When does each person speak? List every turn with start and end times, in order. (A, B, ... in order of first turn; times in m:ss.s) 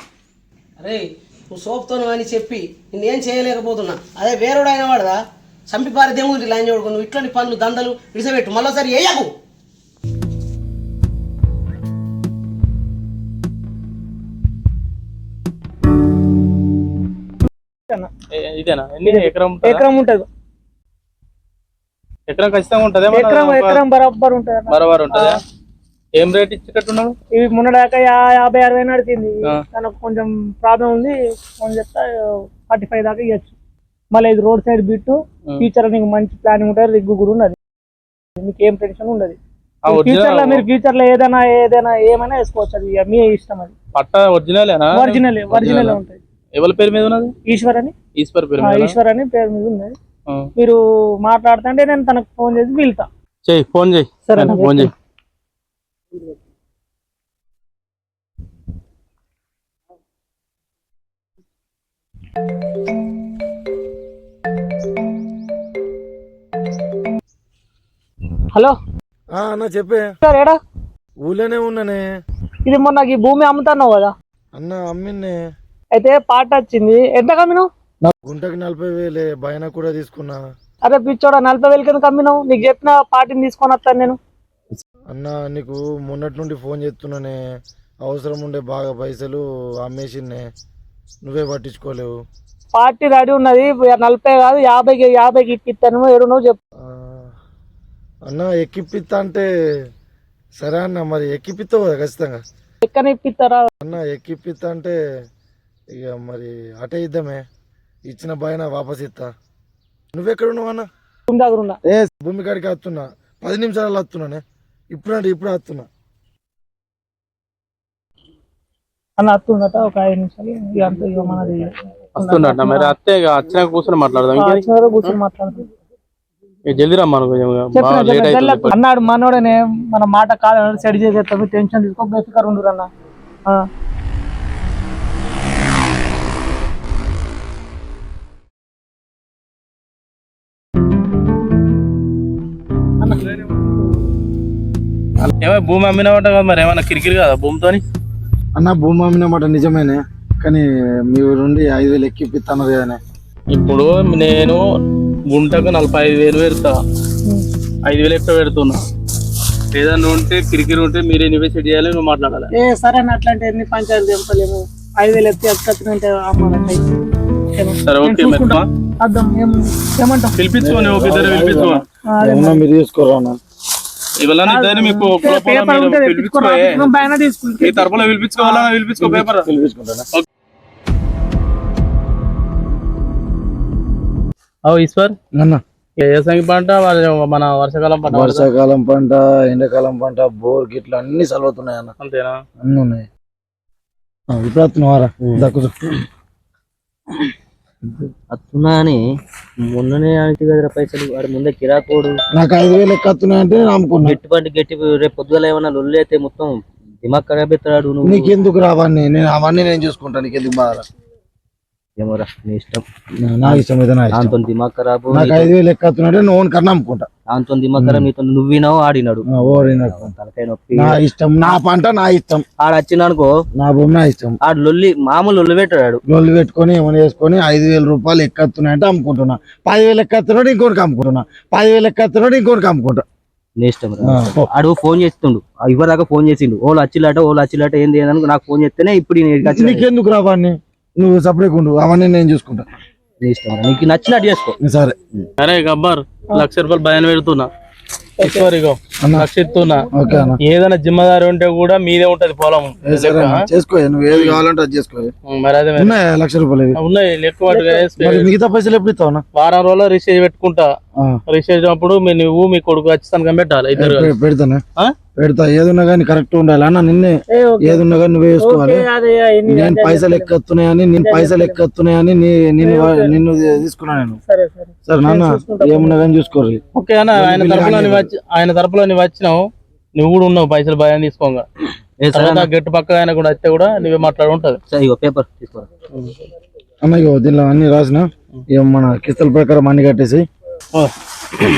0:00.8-0:09.3 A
0:18.4-0:19.9 B
0:19.0-0:20.3 C
0:22.3-0:23.8 B
0:23.1-0:25.4 C
0:24.7-0:25.4 B
0:26.2-0:27.2 B
0:27.3-0:32.1 C
0:32.7-0:33.5 C
0:34.1-0:37.6 C
0:38.4-0:43.7 C
0:39.9-0:40.7 B
0:44.0-0:46.0 B
0:44.9-0:46.2 C
0:46.6-0:47.3 B
0:47.5-0:47.9 C
0:48.2-0:49.0 B
0:48.6-0:50.0 C
0:50.6-0:53.1 C
0:53.5-0:54.9 B
0:54.3-0:54.9 C
1:09.3-1:10.1 D
1:10.2-1:10.6 C
1:11.2-1:12.0 D
1:12.7-1:14.1 C
1:14.6-1:15.4 D
1:15.9-1:17.7 C
1:18.0-1:20.4 D
1:20.8-1:24.2 C
1:25.1-1:27.4 D
1:28.0-1:30.5 D
1:31.2-1:32.1 D
1:32.7-1:36.6 C
1:36.8-1:37.3 D
1:38.3-1:39.5 D
1:40.6-1:42.4 D
1:42.8-1:43.7 C
1:43.8-1:45.0 D
1:45.9-1:47.4 D
1:48.1-1:49.3 D
1:50.1-1:50.9 D
1:51.3-1:51.8 C
1:51.9-1:54.4 D
1:54.9-1:55.9 D
1:59.2-2:03.0 C
2:02.2-2:04.6 B
2:04.4-2:05.6 C
2:06.7-2:08.8 B
2:07.8-2:12.9 C
2:23.0-2:23.4 C
2:25.4-2:27.8 B
2:28.6-2:33.0 D
2:33.5-2:34.6 B
2:35.3-2:36.8 B
2:37.9-2:38.8 B
2:39.8-2:42.5 B
2:42.6-2:46.9 C
2:47.6-2:50.4 C
2:47.9-2:48.7 B
2:50.4-2:51.8 B
2:50.6-2:53.4 D
2:52.2-2:52.6 C
2:54.2-2:57.1 B
2:54.5-2:58.7 C
2:57.6-2:59.5 B
2:59.0-3:00.1 D
3:04.7-3:05.2 B
3:05.4-3:05.6 D
3:06.0-3:08.5 B
3:08.1-3:11.9 D
3:12.0-3:12.4 B
3:12.6-3:13.1 D
3:14.3-3:16.0 D
3:18.3-3:19.0 E
3:19.6-3:22.2 E
3:22.4-3:24.2 D
3:24.1-3:26.5 E
3:27.0-3:28.3 E
3:28.0-3:30.8 D
3:32.0-3:32.8 E
3:33.2-3:34.4 D
3:33.4-3:35.5 E
3:35.1-3:37.1 D
3:37.3-3:41.5 E
3:37.8-3:38.1 D
3:39.3-3:40.1 D
3:40.8-3:42.4 D
3:42.6-3:43.3 E
3:43.6-3:44.4 D
3:44.4-3:46.0 E
3:46.1-3:53.0 D
3:53.6-3:59.9 E
3:54.0-3:54.5 D
3:59.4-4:02.7 D
4:03.2-4:04.6 E
4:04.6-4:05.0 D
4:05.4-4:07.5 B
4:08.2-4:09.9 B
4:08.2-4:08.5 C
4:09.0-4:09.3 D
4:09.9-4:10.4 D
4:10.4-4:13.4 B
4:12.8-4:15.1 D
4:14.1-4:14.4 B
4:15.3-4:16.0 B
4:15.8-4:16.8 D
4:16.8-4:18.3 B
4:18.0-4:19.2 D
4:19.4-4:20.7 B
4:21.3-4:24.1 B
4:23.8-4:24.6 D
4:25.2-4:28.8 D
4:27.3-4:27.8 C
4:28.4-4:30.3 C
4:29.5-4:34.2 D
4:31.0-4:31.6 C
4:32.6-4:33.1 C
4:34.3-4:36.0 C
4:34.9-4:36.6 D
4:36.8-4:41.4 B
4:37.1-4:38.1 D
4:42.0-4:42.5 E
4:42.1-4:44.6 B
4:44.7-4:45.7 E
4:46.8-4:50.3 D